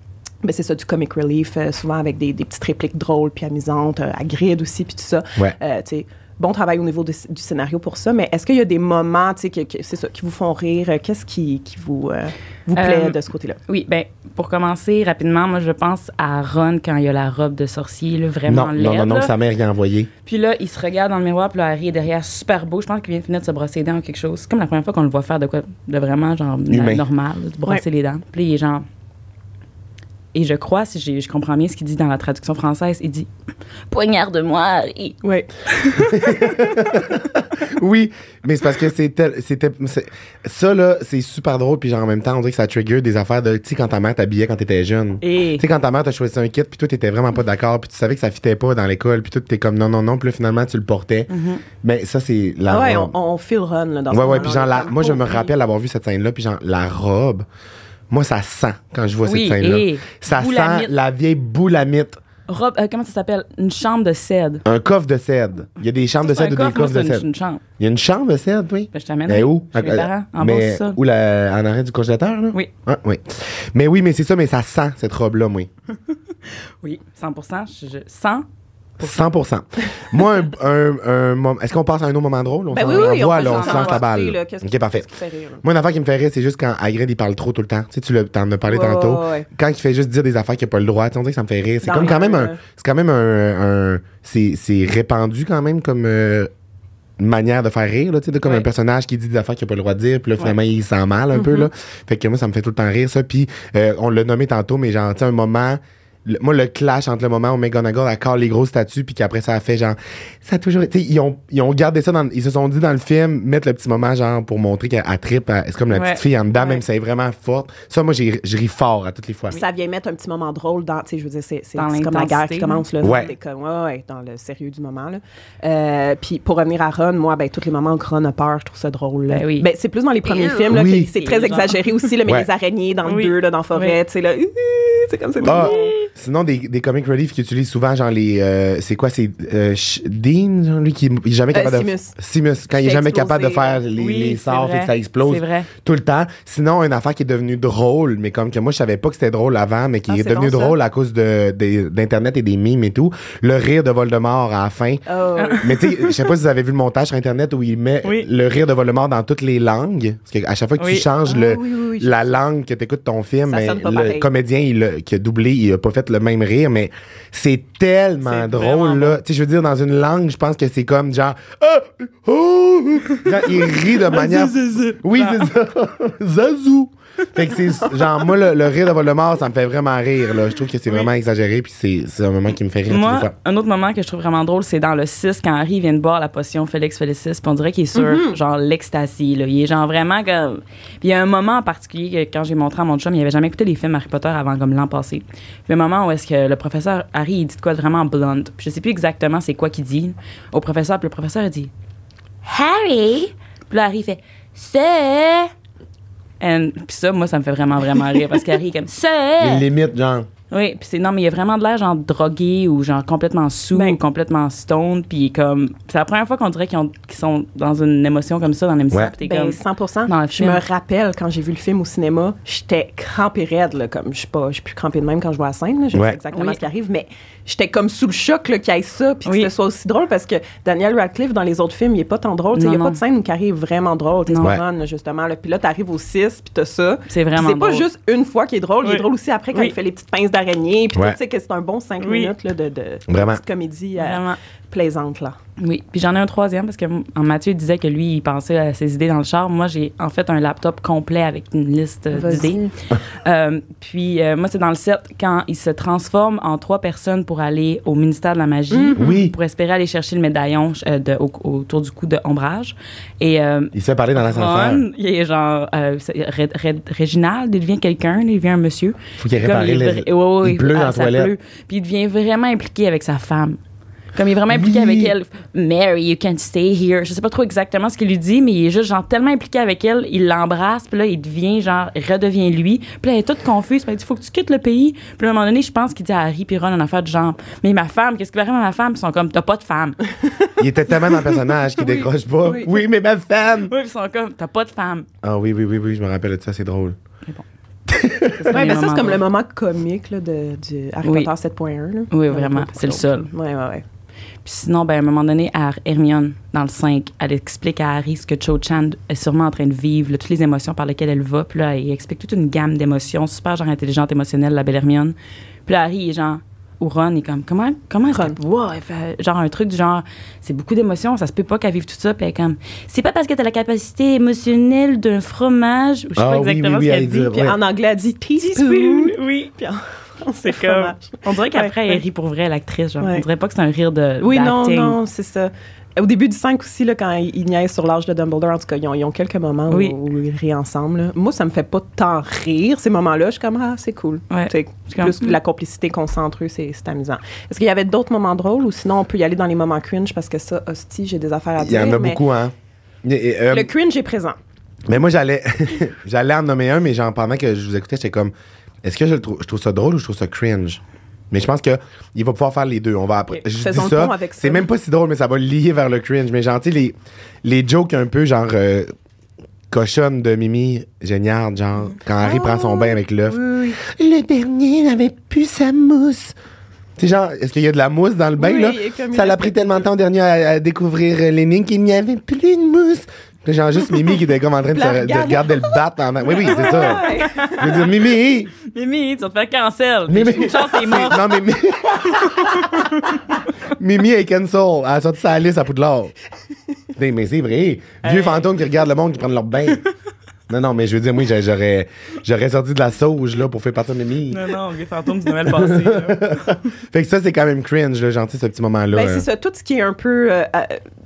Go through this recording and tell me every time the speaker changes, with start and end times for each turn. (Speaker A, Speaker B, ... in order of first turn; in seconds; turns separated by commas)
Speaker A: 0.4-13.6, Speaker B: 12.8-19.3, Speaker C: 18.5-20.1, Speaker B: 20.2-28.8, Speaker C: 26.7-27.0, Speaker B: 30.3-33.3, Speaker B: 33.9-35.2, Speaker A: 35.2-36.2, Speaker C: 36.0-51.3, Speaker B: 45.2-45.6, Speaker B: 51.3-51.6, Speaker C: 51.8-53.1, Speaker A: 52.7-55.5, Speaker C: 54.1-57.5, Speaker C: 58.1-62.2, Speaker B: 59.2-60.9, Speaker B: 62.5-64.6, Speaker C: 64.6-67.2, Speaker B: 66.2-67.6, Speaker C: 67.8-75.7, Speaker B: 68.9-71.0, Speaker B: 76.8-78.4, Speaker B: 79.0-79.3, Speaker C: 79.0-85.1, Speaker A: 82.7-85.6, Speaker B: 82.8-84.0, Speaker C: 85.6-96.5, Speaker A: 88.7-89.5, Speaker A: 91.8-92.6, Speaker C: 97.2-119.6, Speaker A: 101.3-101.7, Speaker B: 115.9-116.8, Speaker A: 119.5-135.9, Speaker B: 121.8-122.8, Speaker C: 123.0-123.3, Speaker B: 129.3-129.7, Speaker B: 130.2-131.8, Speaker C: 130.7-131.1, Speaker B: 133.0-134.0, Speaker B: 135.4-136.1, Speaker C: 135.4-155.0, Speaker A: 141.5-142.2, Speaker A: 142.8-143.8, Speaker B: 144.0-145.7, Speaker A: 150.1-150.8, Speaker A: 155.1-155.8, Speaker B: 155.4-156.2, Speaker C: 155.6-183.3, Speaker B: 160.8-161.1, Speaker A: 161.2-162.3, Speaker A: 163.5-164.3, Speaker B: 168.2-169.2, Speaker B: 174.0-175.5, Speaker B: 182.9-201.7, Speaker A: 187.9-188.3, Speaker B: 202.4-205.5, Speaker B: 206.4-209.7, Speaker C: 209.4-210.3, Speaker B: 210.5-220.6, Speaker A: 213.7-214.0, Speaker A: 219.2-245.3, Speaker B: 226.3-226.6, Speaker B: 229.2-229.5, Speaker B: 232.5-233.0, Speaker B: 234.3-234.6, Speaker B: 237.1-237.8, Speaker B: 238.8-239.7, Speaker B: 242.0-242.3, Speaker C: 243.1-243.4, Speaker B: 244.0-244.4, Speaker B: 245.6-273.6, Speaker A: 252.1-252.7, Speaker A: 258.7-259.0, Speaker C: 259.0-259.3, Speaker C: 263.7-264.8, Speaker C: 269.2-271.3, Speaker B: 274.1-290.0, Speaker C: 274.5-275.1, Speaker C: 290.6-293.7, Speaker B: 293.6-295.1, Speaker C: 295.2-297.0, Speaker C: 297.9-298.5, Speaker A: 298.4-303.8, Speaker B: 298.5-299.2, Speaker B: 301.0-301.3, Speaker B: 302.1-303.3, Speaker B: 304.4-327.4, Speaker C: 326.2-327.6, Speaker A: 327.3-332.0, Speaker B: 328.4-329.5, Speaker B: 330.4-335.0, Speaker A: 334.2-352.2, Speaker B: 339.7-339.9, Speaker B: 344.3-345.4, Speaker C: 351.6-353.7, Speaker A: 353.5-354.4, Speaker C: 354.9-358.3, Speaker C: 358.8-368.9, Speaker A: 363.5-364.7, Speaker C: 369.7-376.3, Speaker A: 372.2-373.8, Speaker C: 377.0-388.5, Speaker A: 378.4-379.8, Speaker A: 384.7-387.9, Speaker B: 386.6-387.9, Speaker B: 388.6-391.3, Speaker C: 390.1-393.0, Speaker B: 392.0-393.2, Speaker C: 393.6-396.1, Speaker C: 396.9-399.8, Speaker B: 398.0-398.5, Speaker C: 400.5-404.5, Speaker B: 404.3-406.4, Speaker C: 405.4-409.2, Speaker A: 408.9-410.8